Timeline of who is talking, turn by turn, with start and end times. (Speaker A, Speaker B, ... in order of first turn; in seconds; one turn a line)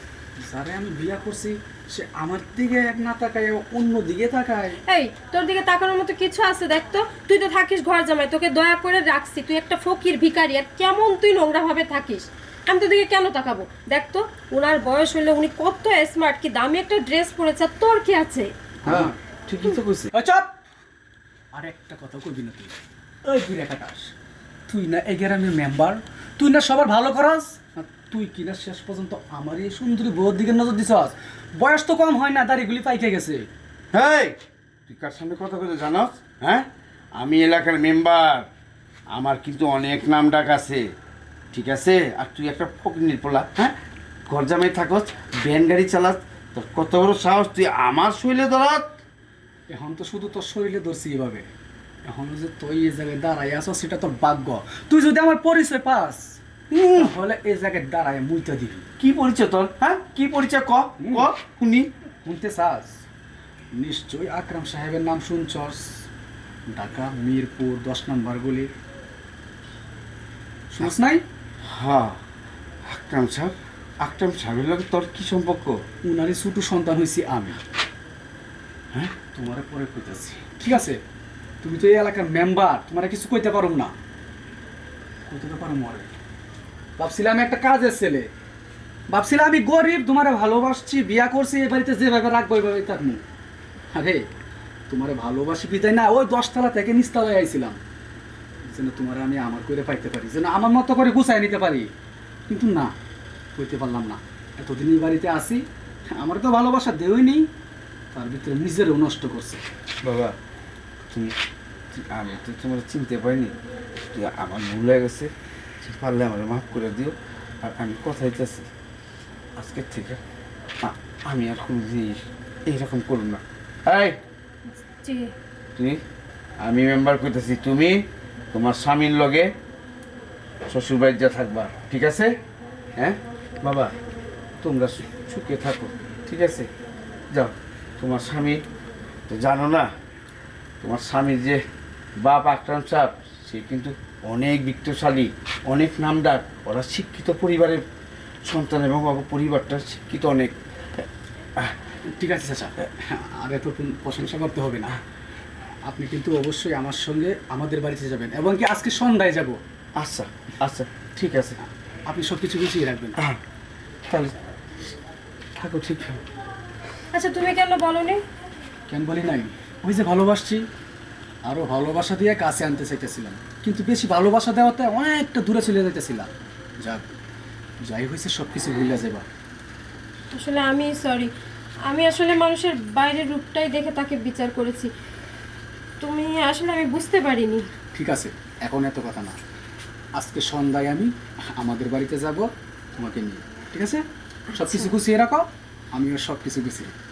Speaker A: 0.4-4.8
Speaker B: 4.8-18.5
Speaker A: 18.8-19.1
Speaker C: 18.8-20.1
Speaker A: 20.1-20.5
Speaker A: 21.5-24.1
Speaker A: 24.7-33.5
Speaker C: 33.9-34.4
Speaker C: 34.9-36.6
Speaker C: 37.1-38.5
Speaker C: 39.1-40.8
Speaker C: 41.5-43.7
Speaker C: 44.3-48.9
Speaker A: 49.7-51.5
Speaker A: 52.0-56.4
Speaker C: 56.7-57.1
Speaker A: 56.9-58.9
Speaker C: 59.0-61.9
Speaker A: 61.0-61.3
Speaker A: 62.2-63.0
Speaker A: 63.7-66.0
Speaker A: 66.7-68.7
Speaker A: 70.7-71.2
Speaker C: 71.6-72.2
Speaker C: 72.8-75.8
Speaker A: 76.0-77.6
Speaker A: 79.2-81.0
Speaker A: 81.6-83.9
Speaker A: 85.3-86.1
Speaker A: 87.0-88.3
Speaker A: 89.1-93.2
Speaker A: 93.9-94.2
Speaker A: 94.9-97.8
Speaker A: 98.7-101.9
Speaker A: 102.5-102.9
Speaker A: 103.6-105.6
Speaker A: 106.1-107.5
Speaker A: 108.1-109.6
Speaker C: 110.0-110.3
Speaker C: 111.1-111.3
Speaker C: 111.9-113.5
Speaker C: 114.1-118.7
Speaker C: 119.6-120.2
Speaker C: 120.8-124.2
Speaker B: 124.8-125.3
Speaker C: 126.6-129.5
Speaker C: 130.7-132.3
Speaker C: 132.9-133.9
Speaker C: 134.6-136.7
Speaker C: 137.3-138.6
Speaker C: 139.3-139.9
Speaker C: 140.8-141.6
Speaker C: 142.2-147.8
Speaker C: 148.4-151.0
Speaker A: 152.1-155.0
Speaker A: 155.8-159.6
Speaker C: 160.0-161.6
Speaker A: 162.1-163.2
Speaker C: 164.1-164.3
Speaker C: 165.6-166.2
Speaker B: 167.1-168.2
Speaker A: 168.9-170.6
Speaker A: 171.4-176.3
Speaker A: 177.8-179.2
Speaker B: 180.3-181.3
Speaker B: 181.9-184.9
Speaker B: 186.0-187.6
Speaker A: 187.9-189.4
Speaker A: 190.2-196.9
Speaker B: 194.5-194.9